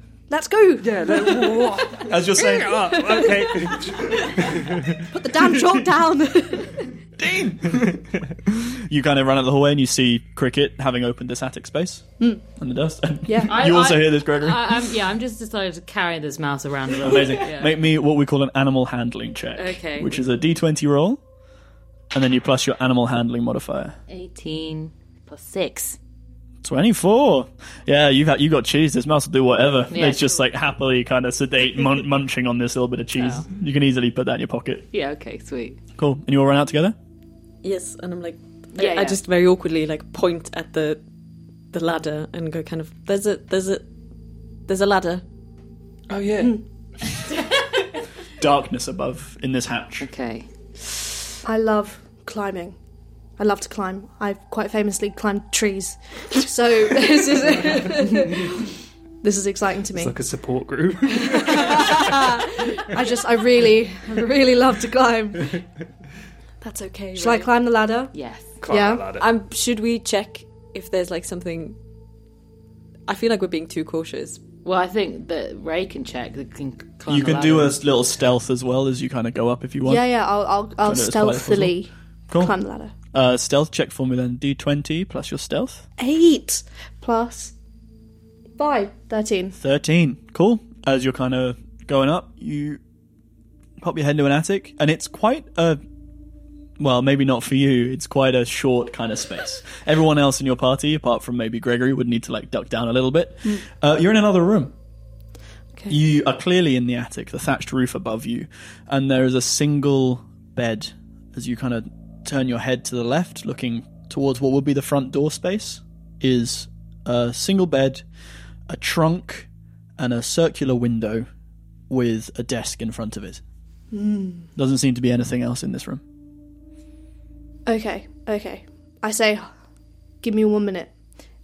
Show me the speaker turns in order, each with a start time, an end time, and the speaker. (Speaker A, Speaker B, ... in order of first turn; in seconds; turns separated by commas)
Speaker A: 0.3-1.9, Speaker B: 0.8-5.0, Speaker C: 2.1-3.0, Speaker A: 2.6-6.9, Speaker C: 7.2-14.9, Speaker A: 13.3-13.6, Speaker D: 13.4-17.8, Speaker C: 16.9-21.2, Speaker D: 19.6-20.2, Speaker C: 22.1-24.0, Speaker D: 24.1-26.0, Speaker C: 26.6-34.9, Speaker D: 29.9-30.4, Speaker D: 33.2-33.5, Speaker D: 34.9-35.8, Speaker C: 36.0-37.0, Speaker E: 37.6-41.0, Speaker D: 38.8-39.2, Speaker E: 41.7-43.9, Speaker E: 44.7-45.2, Speaker B: 46.1-46.6, Speaker C: 48.4-50.1, Speaker D: 50.0-50.5, Speaker A: 51.5-52.8, Speaker A: 53.4-58.7, Speaker A: 59.2-60.1, Speaker B: 59.9-62.6, Speaker A: 61.2-65.6, Speaker E: 66.6-67.5, Speaker A: 67.2-68.1, Speaker D: 68.1-68.6, Speaker B: 68.6-69.3, Speaker A: 68.7-69.1, Speaker E: 69.1-71.8, Speaker E: 73.1-74.5, Speaker D: 74.6-77.8, Speaker C: 77.1-80.0, Speaker A: 79.9-82.9, Speaker C: 80.8-81.8, Speaker C: 82.3-82.5, Speaker C: 83.1-85.9, Speaker A: 86.0-87.5, Speaker A: 88.6-89.6, Speaker C: 89.6-92.8, Speaker C: 93.8-95.8, Speaker C: 96.8-104.7, Speaker C: 105.9-118.0, Speaker C: 118.7-121.3, Speaker C: 121.9-123.4, Speaker A: 123.9-124.5, Speaker C: 124.6-126.0, Speaker A: 127.7-129.5, Speaker A: 130.2-130.9